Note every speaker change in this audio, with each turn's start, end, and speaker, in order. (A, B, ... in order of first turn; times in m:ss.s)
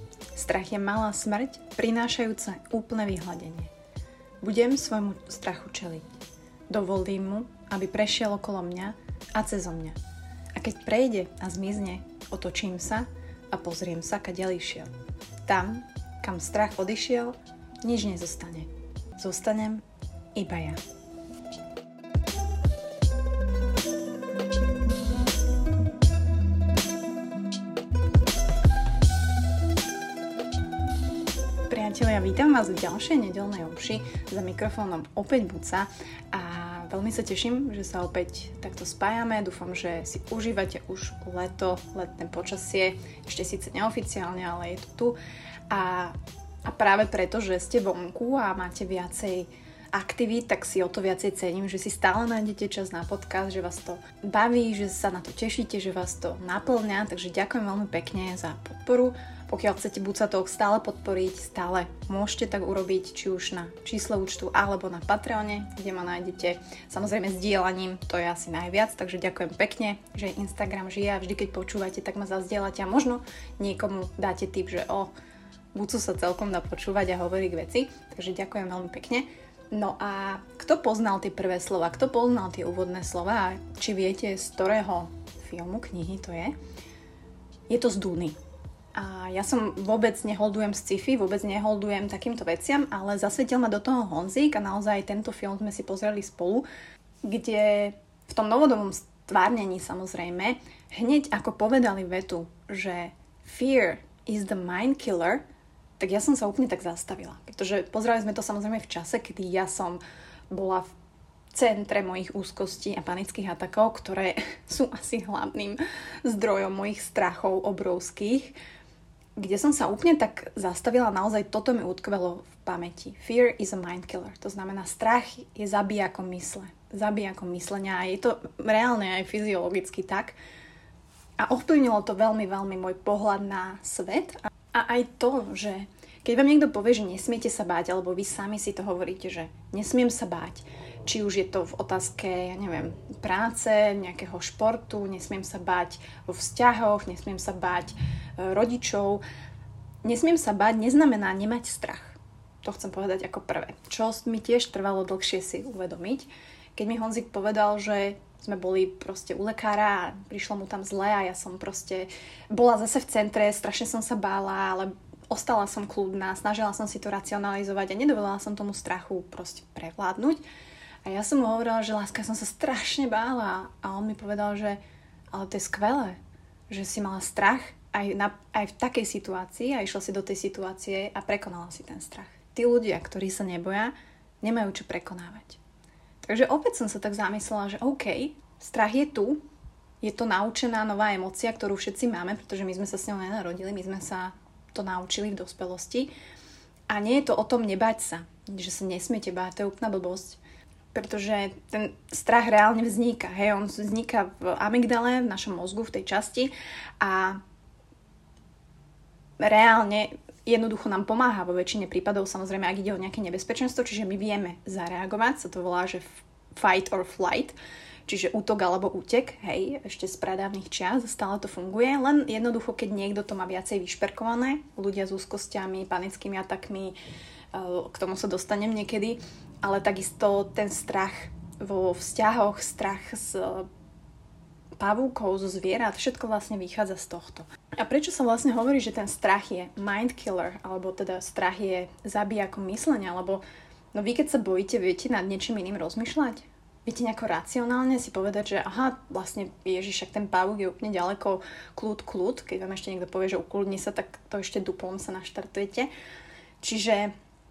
0:00.3-0:03.7 A
0:04.4-0:06.1 A
0:06.7-0:10.0 A
0:10.6-0:14.9 A
0:15.5-0:19.8 A
0:20.4-0:20.8 A
0:31.7-0:45.2 A
0:45.7-1:15.1 A
1:15.7-1:26.6 A
1:27.7-1:28.4 A
1:29.0-1:36.7 A
1:37.2-1:45.4 A
1:46.0-1:50.9 A
1:51.5-1:58.6 A
1:59.4-2:10.4 A
2:11.4-2:29.2 A
2:30.0-2:50.4 A
2:51.0-2:54.8 A
2:55.3-2:56.2 A
2:56.7-3:05.6 A
3:06.2-3:09.4 A
3:10.0-3:16.1 A
3:16.9-3:20.4 A
3:20.9-3:27.4 A
3:29.4-3:47.0 A
3:47.5-3:53.7 A
3:54.8-4:03.4 A
4:03.9-4:15.9 A
4:16.6-4:17.1 A